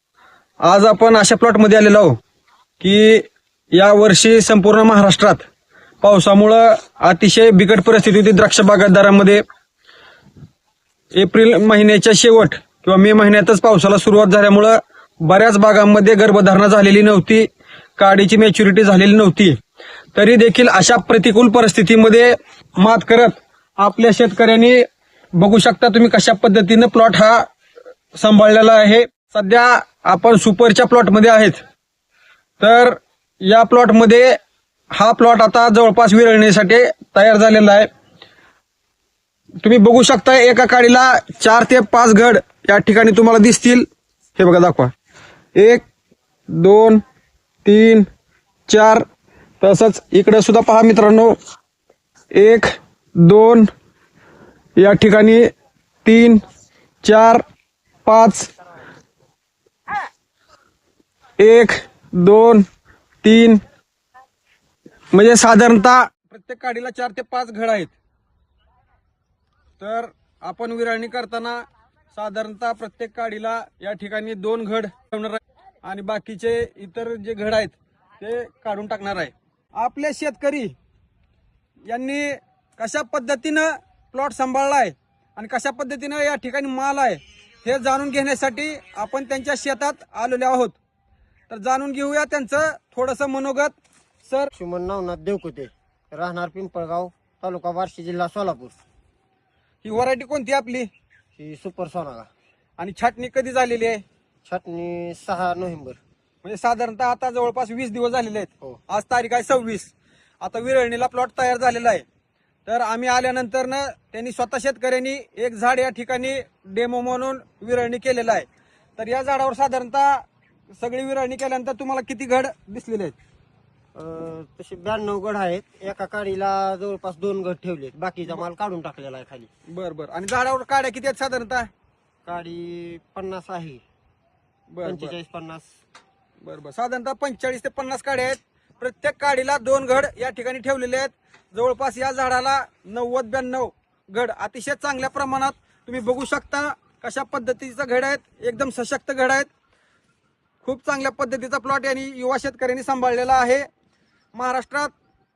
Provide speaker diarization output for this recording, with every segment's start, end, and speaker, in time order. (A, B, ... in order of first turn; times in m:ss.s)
0:00.6-0:02.2 A
0:02.8-0:05.4 A
0:06.0-0:09.4 A
0:11.1-0:17.5 A
0:18.0-0:19.6 A
0:20.1-0:24.8 A
0:25.4-0:27.4 A
0:28.2-0:31.6 A
0:32.6-0:34.3 A
0:34.9-0:37.9 A
0:39.6-0:44.9 A
0:45.6-0:45.8 A
0:46.5-0:47.0 A
0:47.6-0:48.1 A
0:48.7-0:49.0 A
0:49.6-0:51.4 A
0:52.3-0:53.7 A
0:54.8-0:55.4 A
0:56.0-0:56.4 A
0:57.0-0:57.4 A
0:58.0-0:58.5 A
1:01.4-1:02.6 A
1:03.2-1:03.6 A
1:05.1-1:07.9 A
1:09.8-1:11.6 A
1:12.1-1:20.7 A
1:21.9-1:30.8 A
1:31.5-1:33.7 A
1:34.5-1:38.8 B
1:39.8-1:40.9 A
1:41.4-1:42.3 B
1:42.8-1:44.0 A
1:44.4-1:46.0 B
1:46.4-1:52.0 A
1:52.6-2:00.2 A
2:00.8-2:03.2 A
2:03.9-2:09.5 B
2:09.7-2:11.7 A
2:12.2-2:13.8 B
2:14.7-2:15.1 A
2:14.8-2:15.7 B
2:16.4-2:29.5 A
2:30.6-2:33.6 A
2:34.3-2:34.9 A